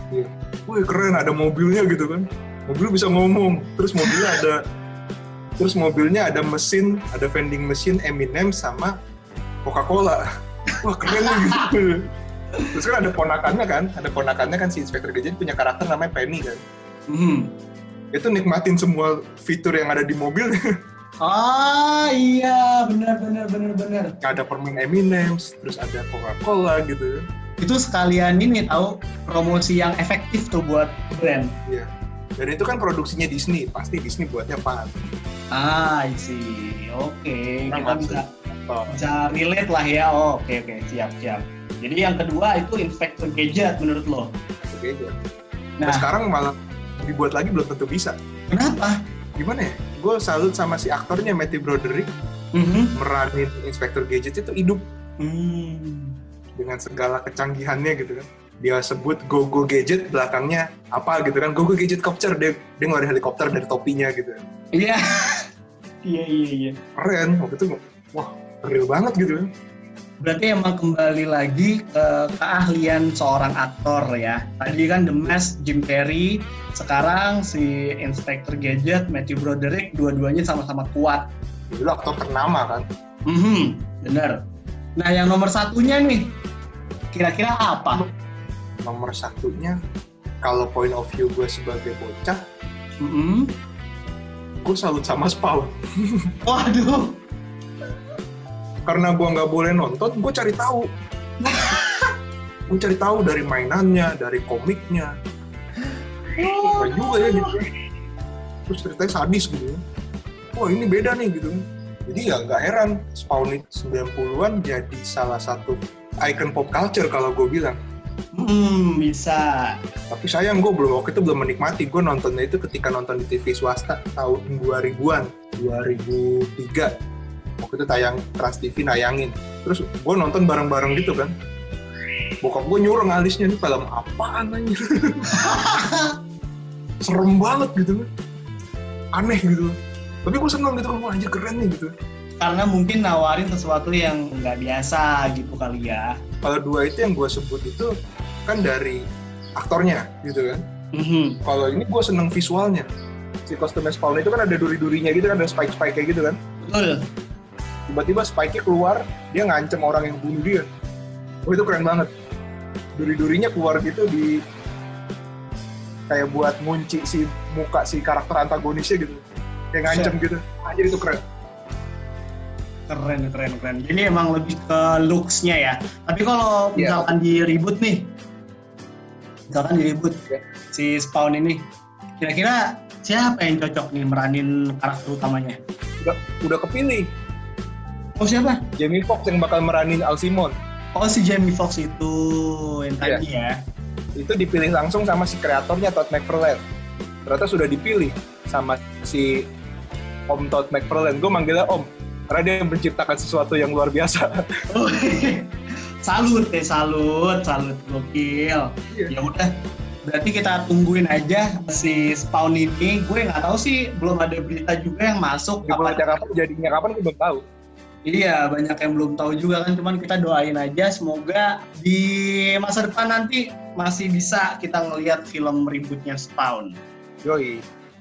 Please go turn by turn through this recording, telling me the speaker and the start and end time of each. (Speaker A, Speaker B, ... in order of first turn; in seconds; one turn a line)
Speaker A: 0.1-4.6
Speaker B: 4.0-4.4
Speaker A: 5.6-8.9
Speaker A: 9.6-10.2
Speaker A: 10.8-12.1
Speaker B: 11.1-11.7
Speaker A: 12.7-16.6
Speaker B: 17.1-17.5
Speaker A: 18.1-20.6
Speaker B: 21.2-24.1
Speaker A: 24.2-27.2
Speaker B: 27.6-31.5
Speaker A: 31.6-34.9
Speaker B: 35.5-38.2
Speaker A: 37.7-39.0
Speaker B: 38.9-44.3
Speaker A: 44.7-45.1
Speaker B: 45.8-46.1
Speaker A: 45.8-48.1
Speaker B: 48.5-49.0
Speaker A: 49.4-52.1
Speaker B: 52.5-52.9
Speaker A: 52.9-54.8
Speaker B: 55.2-56.1
Speaker A: 56.6-64.4
Speaker B: 64.8-65.5
Speaker B: 66.0-66.8
Speaker A: 67.0-69.5
Speaker B: 70.2-81.2
Speaker A: 81.7-82.8
Speaker B: 83.3-84.4
Speaker B: 85.0-86.3
Speaker B: 87.1-88.0
Speaker A: 88.8-89.8
Speaker A: 90.4-92.4
Speaker B: 93.0-93.5
Speaker A: 94.6-96.3
Speaker B: 96.5-97.1
Speaker A: 98.8-100.9
Speaker B: 101.4-102.1
Speaker A: 102.7-105.1
Speaker B: 105.8-107.5
Speaker A: 106.6-107.7
Speaker A: 108.7-109.8
Speaker A: 110.5-117.8
Speaker B: 118.3-119.8
Speaker A: 120.1-126.9
Speaker A: 127.6-131.3
Speaker A: 132.4-135.3
Speaker B: 135.3-136.1
Speaker A: 137.0-138.1
Speaker A: 139.1-139.7
Speaker A: 140.2-141.9
Speaker B: 142.4-146.1
Speaker A: 146.4-147.9
Speaker A: 148.5-149.0
Speaker A: 149.6-150.6
Speaker B: 150.9-151.4
Speaker A: 151.4-152.9
Speaker A: 153.5-156.4
Speaker B: 156.6-157.0
Speaker A: 157.9-160.7
Speaker A: 161.4-162.1
Speaker A: 162.9-164.4
Speaker A: 166.1-169.2
Speaker A: 169.7-171.2
Speaker B: 169.8-170.1
Speaker B: 172.9-178.1
Speaker A: 176.7-177.1
Speaker B: 179.5-180.2
Speaker B: 180.7-181.7
Speaker B: 182.2-185.6
Speaker A: 186.0-187.1
Speaker B: 188.2-188.6
Speaker A: 188.8-190.5
Speaker B: 191.0-193.6
Speaker A: 194.2-196.6
Speaker A: 197.2-199.4
Speaker A: 200.3-204.3
Speaker B: 204.7-205.5
Speaker B: 206.0-209.5
Speaker B: 210.1-216.2
Speaker A: 215.6-217.4
Speaker B: 218.1-226.8
Speaker A: 227.2-227.6